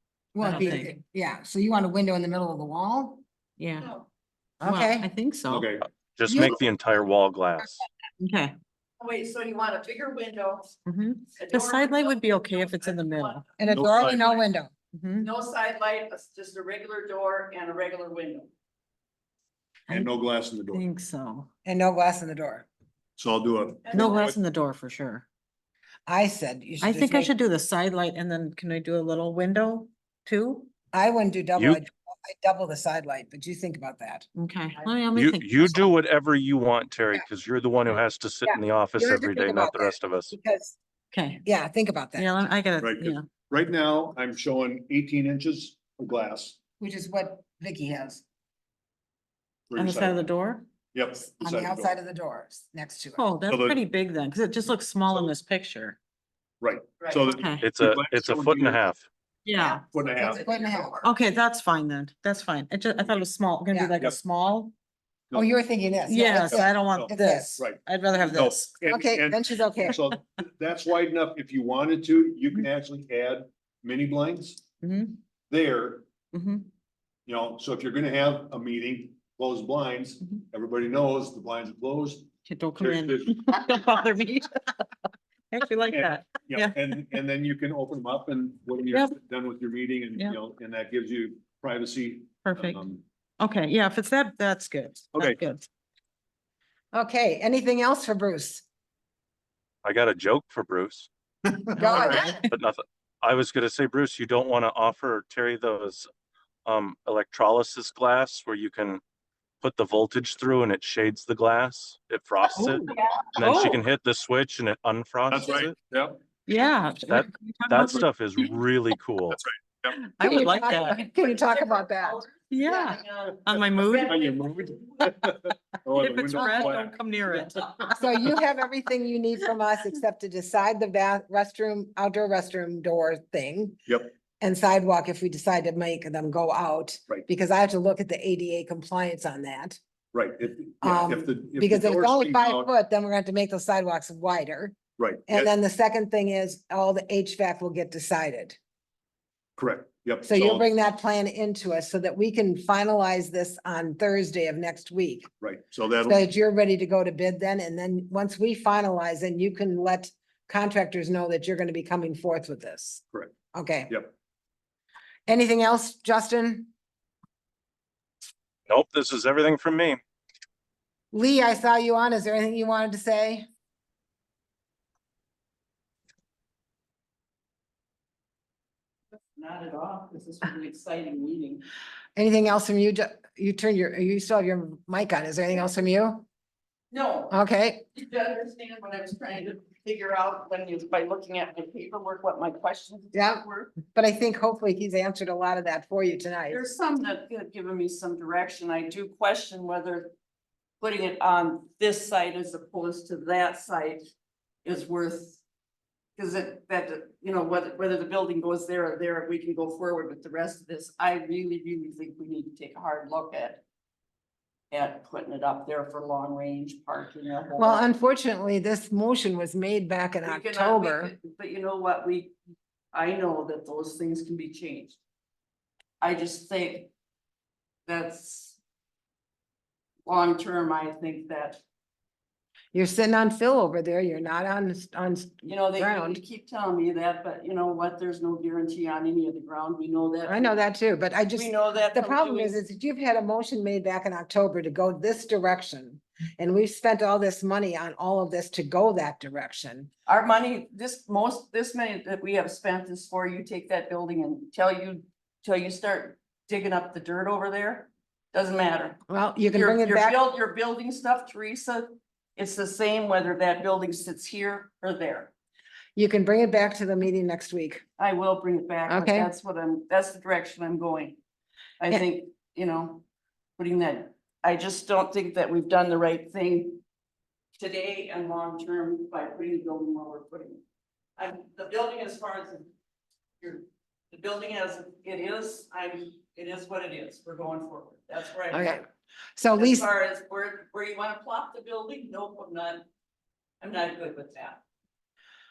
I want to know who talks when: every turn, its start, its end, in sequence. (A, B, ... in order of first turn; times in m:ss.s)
0:00.3-0:03.2 A
0:00.4-0:00.9 B
0:03.6-0:03.9 B
0:03.8-0:04.1 C
0:04.6-0:05.1 A
0:04.6-0:05.7 B
0:05.5-0:05.9 D
0:06.1-0:07.8 E
0:06.2-0:06.6 A
0:08.2-0:08.5 B
0:09.0-0:10.8 C
0:10.8-0:13.5 B
0:11.4-0:14.2 C
0:13.6-0:14.7 A
0:13.7-0:14.3 D
0:14.9-0:15.3 B
0:15.2-0:18.5 C
0:19.9-0:20.8 D
0:20.7-0:21.5 B
0:21.6-0:22.6 A
0:23.2-0:24.3 D
0:23.8-0:24.3 C
0:23.9-0:25.2 B
0:26.1-0:27.3 A
0:26.8-0:30.7 B
0:30.9-0:34.2 A
0:31.6-0:31.8 E
0:34.4-0:35.9 B
0:35.1-0:40.3 E
0:38.4-0:40.8 A
0:41.1-0:41.4 B
0:41.4-0:42.3 A
0:42.2-0:43.2 B
0:42.8-0:46.6 D
0:46.8-0:48.2 A
0:49.7-0:50.2 D
0:49.8-0:50.6 B
0:50.9-0:51.9 D
0:51.2-0:53.2 A
0:53.2-0:56.0 B
0:53.5-0:53.8 D
0:56.6-0:58.9 D
0:57.0-0:57.3 C
0:57.3-0:57.6 B
0:57.6-0:59.0 E
0:59.4-0:59.8 B
0:59.6-1:01.1 C
0:59.9-1:00.4 D
1:00.2-1:01.0 A
1:01.0-1:04.7 B
1:05.3-1:07.6 A
1:06.0-1:08.8 B
1:06.3-1:14.6 D
1:08.8-1:10.0 A
1:14.8-1:15.2 B
1:15.5-1:16.0 D
1:16.3-1:16.7 B
1:17.2-1:23.4 D
1:22.4-1:24.9 B
1:25.5-1:27.0 B
1:25.9-1:33.0 D
1:32.4-1:32.8 B
1:33.4-1:35.7 B
1:35.1-1:35.4 D
1:36.9-1:38.6 A
1:39.8-1:41.1 E
1:41.7-1:42.5 B
1:41.8-1:42.5 A
1:41.9-1:46.1 E
1:46.6-1:49.0 E
1:49.6-1:55.8 E
1:52.6-1:53.4 C
1:52.6-1:53.8 B
1:55.3-1:56.2 D
1:56.4-1:58.1 B
1:57.1-1:59.4 E
1:59.3-2:00.0 D
1:59.9-2:01.0 B
2:00.2-2:02.2 A
2:01.0-2:05.2 C
2:02.5-2:04.2 B
2:03.9-2:07.0 D
2:05.9-2:08.3 B
2:06.4-2:08.0 C
2:07.9-2:13.8 A
2:13.8-2:14.1 D
2:14.4-2:19.8 A
2:20.1-2:22.7 D
2:20.8-2:28.6 A
2:25.0-2:25.5 D
2:29.6-2:30.6 D
2:30.2-2:35.3 A
2:35.4-2:36.2 D
2:36.0-2:43.0 A
2:43.5-2:44.0 A
2:45.3-2:46.7 A
2:48.7-2:50.0 E
2:51.1-2:53.4 A
2:59.3-3:01.6 C
3:02.2-3:06.2 A
3:06.9-3:07.4 C
3:07.3-3:07.8 A
3:07.9-3:13.8 C
3:13.1-3:16.6 A
3:16.5-3:20.1 C
3:20.8-3:24.1 C
3:24.6-3:25.4 C
3:26.2-3:33.6 C
3:34.7-3:37.9 C
3:37.6-3:41.1 A
3:40.2-3:42.3 C
3:42.9-3:45.0 C
3:46.0-3:46.9 C
3:47.8-3:48.6 C
3:50.0-3:51.6 C
3:52.7-3:56.2 A
3:55.4-4:00.6 C
4:00.2-4:09.9 A
4:01.3-4:02.6 C
4:10.0-4:19.0 C
4:19.1-4:20.2 A
4:19.5-4:25.3 C
4:26.0-4:27.8 A
4:28.0-4:31.2 C
4:28.9-4:29.3 A
4:31.8-4:33.0 C
4:33.6-4:36.8 C
4:37.6-4:40.6 C
4:41.2-4:42.7 C
4:43.4-4:48.8 C
4:48.5-4:49.8 A
4:49.5-4:52.9 C
4:53.6-4:54.6 C